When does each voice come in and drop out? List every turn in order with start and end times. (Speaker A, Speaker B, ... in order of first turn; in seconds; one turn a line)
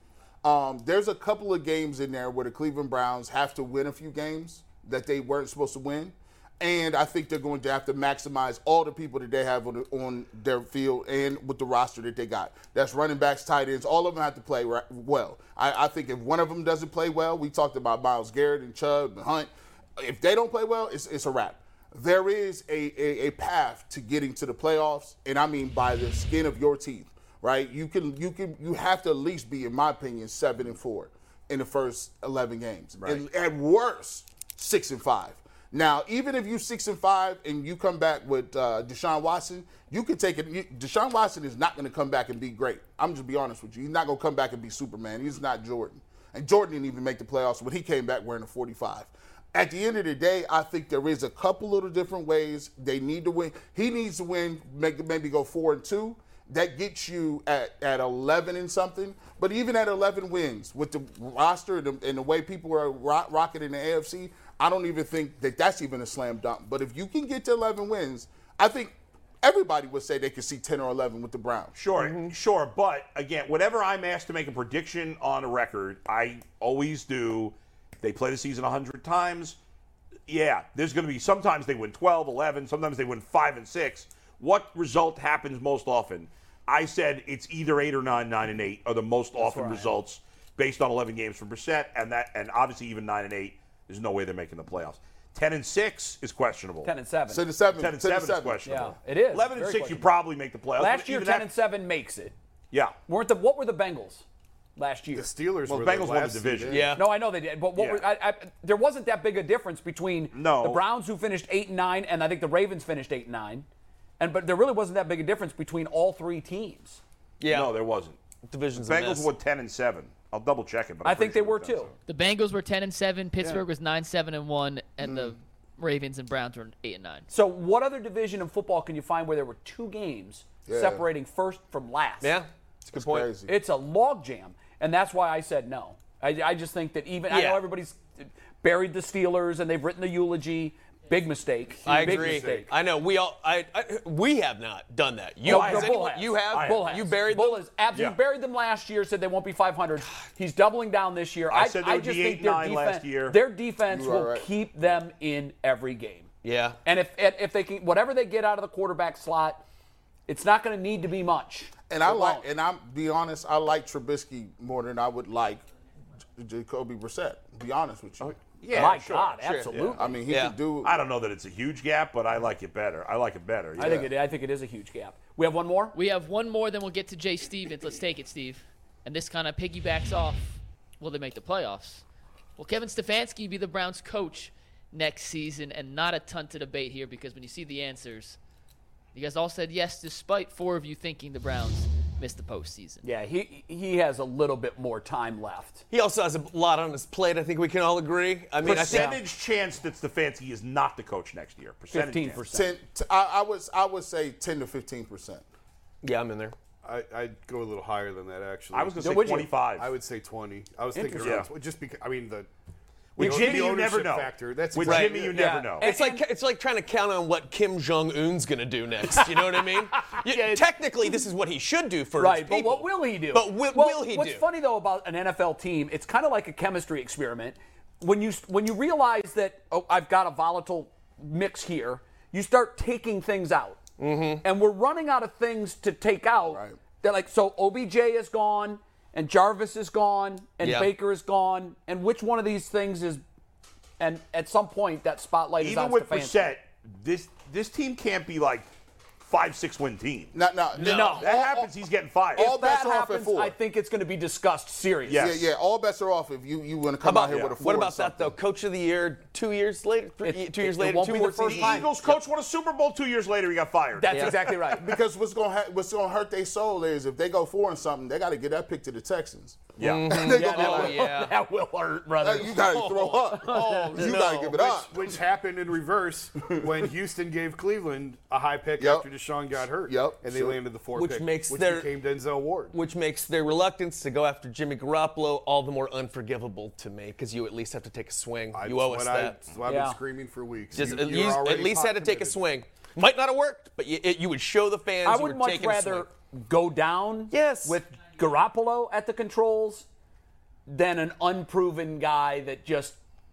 Speaker A: 0.4-71.7
Speaker B: 33.0-33.2
Speaker B: 71.7-79.6
Speaker C: 72.0-72.3
Speaker B: 80.3-96.9
Speaker D: 89.4-89.9
Speaker D: 96.8-97.5
Speaker A: 97.3-98.7
Speaker B: 97.7-101.5
Speaker D: 98.6-100.1
Speaker D: 100.8-102.3
Speaker D: 103.1-104.2
Speaker D: 104.8-105.3
Speaker E: 105.1-106.8
Speaker B: 105.7-106.8
Speaker C: 106.7-107.1
Speaker D: 106.9-113.7
Speaker B: 107.7-108.0
Speaker B: 110.3-110.8
Speaker D: 114.2-117.0
Speaker C: 117.4-117.8
Speaker B: 117.5-118.2
Speaker C: 118.5-119.3
Speaker B: 118.7-122.0
Speaker D: 121.0-121.9
Speaker F: 122.1-127.3
Speaker A: 125.0-125.4
Speaker D: 127.3-132.3
Speaker A: 130.7-131.1
Speaker C: 132.2-133.3
Speaker A: 132.9-133.5
Speaker D: 133.4-142.7
Speaker C: 137.3-137.6
Speaker E: 141.8-142.7
Speaker C: 141.9-147.7
Speaker B: 145.4-146.9
Speaker D: 145.4-156.3
Speaker B: 147.9-148.2
Speaker B: 151.5-153.4
Speaker A: 153.9-154.5
Speaker C: 156.4-156.8
Speaker D: 156.8-159.6
Speaker D: 160.3-162.4
Speaker A: 161.9-165.6
Speaker A: 166.4-168.4
Speaker B: 168.5-170.0
Speaker D: 168.7-170.1
Speaker C: 169.4-169.7
Speaker A: 169.8-171.0
Speaker C: 170.3-170.6
Speaker B: 170.8-174.1
Speaker D: 173.8-175.9
Speaker F: 175.9-182.0
Speaker F: 182.6-188.4
Speaker F: 189.1-193.0
Speaker D: 193.0-195.8
Speaker C: 195.9-199.2
Speaker B: 198.6-202.4
Speaker D: 198.6-199.2
Speaker D: 201.9-202.7
Speaker A: 202.5-205.4
Speaker C: 206.0-206.6
Speaker E: 206.8-209.2
Speaker B: 208.7-209.9
Speaker D: 209.0-209.6
Speaker E: 209.8-212.5
Speaker D: 210.9-211.5
Speaker B: 211.2-211.5
Speaker E: 213.2-215.6
Speaker B: 213.2-215.9
Speaker C: 214.8-224.4
Speaker D: 215.2-216.2
Speaker D: 220.0-220.7
Speaker D: 222.2-233.8
Speaker C: 234.0-234.4
Speaker D: 234.4-243.2
Speaker A: 236.5-236.8
Speaker C: 240.6-240.9
Speaker D: 244.0-246.5
Speaker B: 245.6-252.5
Speaker A: 250.3-251.6
Speaker D: 250.8-251.7
Speaker A: 252.3-253.6
Speaker D: 252.3-255.4
Speaker B: 255.1-255.5
Speaker A: 255.1-258.4
Speaker C: 257.0-262.2
Speaker B: 257.3-257.6
Speaker D: 260.2-261.9
Speaker B: 261.4-264.6
Speaker D: 263.9-264.9
Speaker C: 264.1-264.4
Speaker A: 264.8-271.0
Speaker C: 269.8-271.3
Speaker B: 269.8-270.1
Speaker D: 270.1-274.4
Speaker A: 272.2-275.2
Speaker C: 272.8-274.7
Speaker E: 274.5-282.7
Speaker A: 278.8-280.6
Speaker C: 280.9-281.9
Speaker C: 282.7-289.4
Speaker E: 288.5-292.4
Speaker D: 289.7-290.0
Speaker C: 290.7-296.1
Speaker D: 295.1-299.9
Speaker C: 297.3-297.8
Speaker D: 300.7-303.0